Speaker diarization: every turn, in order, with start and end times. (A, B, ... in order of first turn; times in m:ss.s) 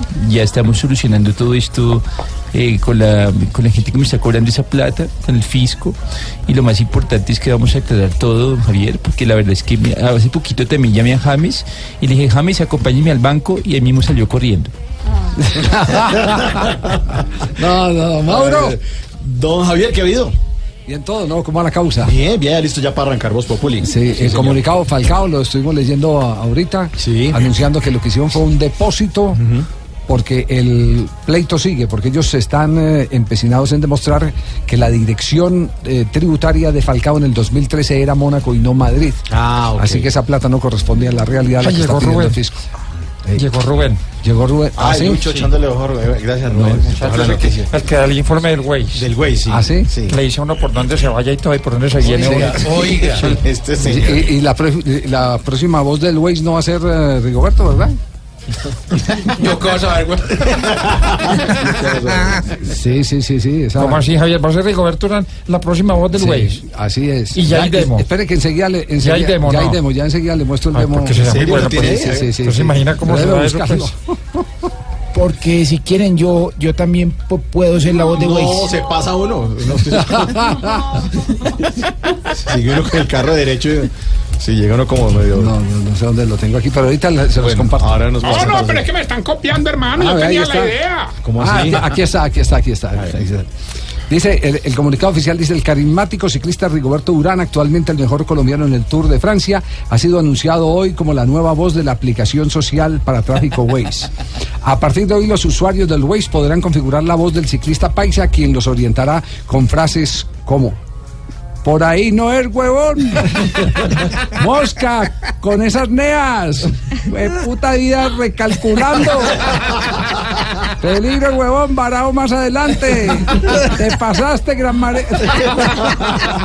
0:00.1-0:02.0 A
0:02.5-0:06.0 A
0:06.5-0:14.7 A
0:15.4-0:16.7 B
0:17.6-0:18.8 B
0:18.3-0:20.3 C
0:20.8-0:22.1 B
0:22.0-0:24.6 C
0:23.8-0:29.4 B
0:27.0-0:27.4 C
0:29.4-0:29.6 C
0:30.1-0:39.2 B
0:39.3-0:40.1 C
0:39.8-0:42.6 B
0:41.6-0:42.4 D
0:43.4-0:44.0 D
0:44.2-0:45.3 B
0:44.8-0:47.7 C
0:46.5-0:47.0 B
0:47.0-0:49.0 D
0:48.9-0:50.2 C
0:49.5-0:49.9 B
0:50.1-0:52.7 D
0:52.0-0:52.7 B
0:52.0-0:54.2 C
0:53.8-0:58.0 B
1:01.8-1:02.1 C
1:02.6-1:04.1 B
1:03.8-1:06.5 D
1:06.1-1:14.1 B
1:07.3-1:08.0 D
1:09.0-1:09.8 D
1:10.7-1:13.9 D
1:11.3-1:12.2 C
1:15.1-1:18.7 E
1:18.2-1:20.3 C
1:19.9-1:20.9 B
1:22.4-1:23.9 C
1:24.4-1:25.5 C
1:25.3-1:28.0 B
1:27.4-1:28.9 C
1:28.2-1:31.1 F
1:29.9-1:30.8 B
1:31.2-1:31.8 C
1:31.4-1:33.5 B
1:34.1-1:44.1 B
1:44.6-1:50.8 B
1:51.6-1:53.6 B
1:54.3-1:59.4 B
2:00.8-2:05.8 B